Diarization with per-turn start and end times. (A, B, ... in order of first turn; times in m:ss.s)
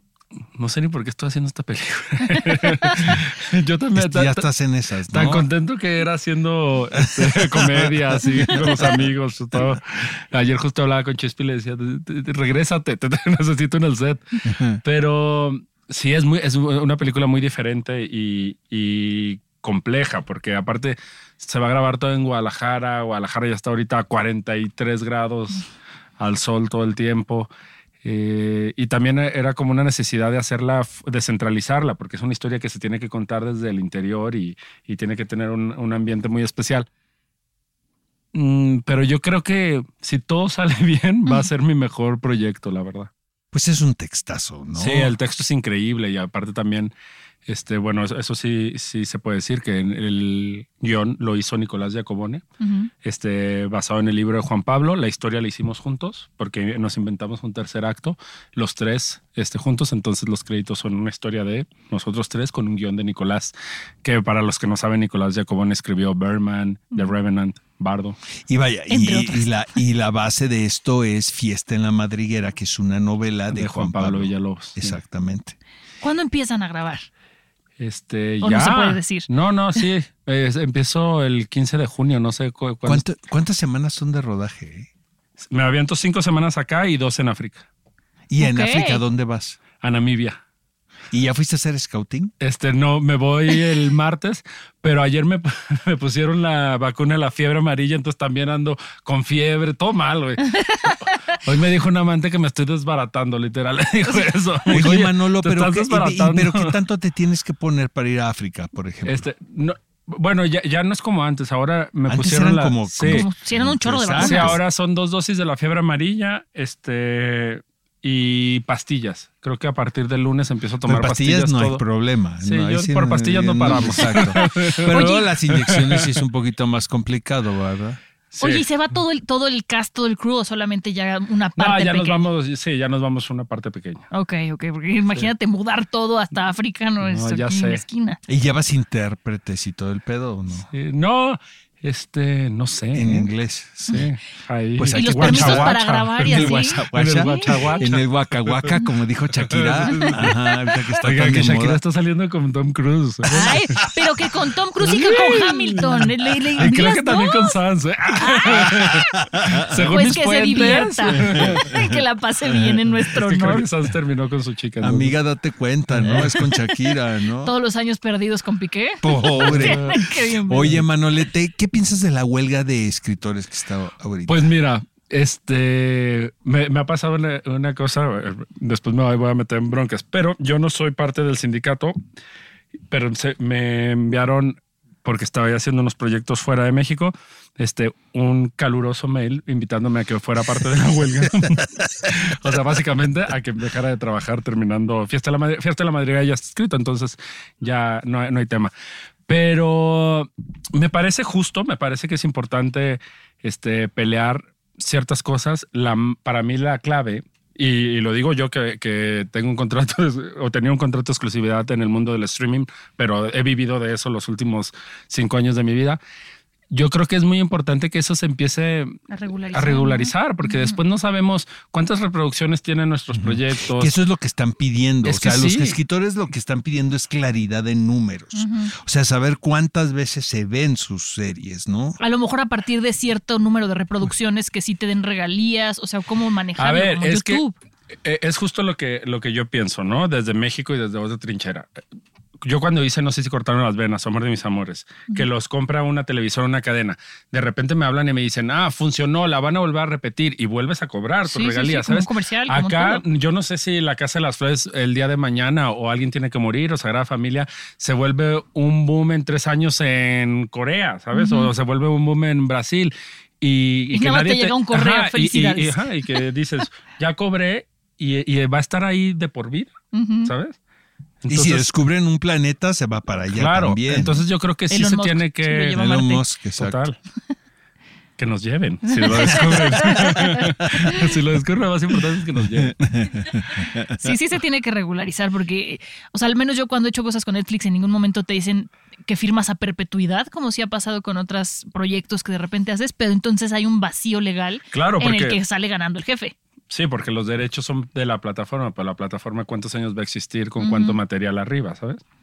0:00.6-0:04.4 A
0:03.9-0:05.5 B
0:05.1-0:25.6 A
0:06.9-0:09.8 B
0:14.4-0:14.8 B
0:26.2-0:27.5 A
0:28.0-0:36.9 A
0:38.3-0:43.1 A
0:43.5-0:45.1 B
0:44.7-0:46.9 A
0:47.5-0:52.4 A
0:52.6-0:52.9 C
0:53.0-1:08.2 A
1:08.5-1:15.6 B
1:08.9-1:09.5 C
1:13.5-1:15.0 A
1:16.0-1:17.0 C
1:17.8-1:23.0 A
1:18.4-1:19.3 C
1:22.8-1:24.9 B
1:25.5-1:27.6 A
1:28.3-1:29.6 B
1:28.4-1:29.0 C
1:29.8-1:30.4 A
1:31.1-1:32.3 B
1:32.4-1:46.7 A
1:44.7-1:49.2 B
1:49.0-1:53.3 A
1:52.1-1:54.6 B
1:53.0-1:54.6 C
1:54.2-2:01.8 A
2:00.8-2:08.0 B
2:02.4-2:06.2 A
2:04.9-2:05.2 C
2:08.3-2:08.6 A
2:08.4-2:12.2 C
2:11.6-2:14.0 A
2:14.1-2:18.2 C
2:17.0-2:17.8 A
2:18.3-2:20.7 B
2:20.7-2:23.3 A
2:22.9-2:24.1 B
2:23.9-2:28.7 A
2:24.8-2:31.8 B
2:24.9-2:27.9 C
2:29.4-2:30.4 A
2:31.0-2:33.8 A
2:33.2-2:34.2 B
2:33.3-2:37.5 C
2:34.9-2:35.1 B
2:34.9-2:35.8 A
2:36.6-2:41.6 A
2:38.2-2:38.9 C
2:38.6-2:39.9 B
2:39.9-2:43.6 C
2:41.1-2:42.0 B
2:43.1-2:45.1 A
2:44.8-2:47.5 B
2:47.4-2:50.7 C
2:49.0-2:54.5 B
2:49.4-2:50.0 A
2:54.3-3:02.0 A
3:02.9-3:18.7 A
3:11.4-3:12.1 B
3:19.3-3:36.0 A
3:36.7-3:39.0 A
3:39.1-3:40.8 C
3:39.5-3:43.9 A
3:43.1-3:52.0 B
3:45.0-3:45.8 A
3:48.3-3:48.7 C
3:52.0-3:57.6 C
3:56.6-3:57.4 A
3:58.0-4:01.7 A
4:02.4-4:29.7 A
4:11.3-4:13.0 C
4:21.1-4:21.5 C
4:23.9-4:25.9 C
4:29.9-4:30.3 C
4:30.2-4:30.6 A
4:31.2-4:31.7 A
4:31.3-4:34.2 B
4:33.3-4:35.8 A
4:34.7-4:36.2 C
4:35.7-4:36.8 B
4:36.6-4:37.0 A
4:38.2-4:42.8 A
4:38.9-4:40.9 C
4:39.1-4:39.9 B
4:42.6-4:44.1 B
4:44.0-4:56.3 C
4:54.7-4:55.4 A
4:56.7-5:02.0 A
5:00.6-5:01.0 C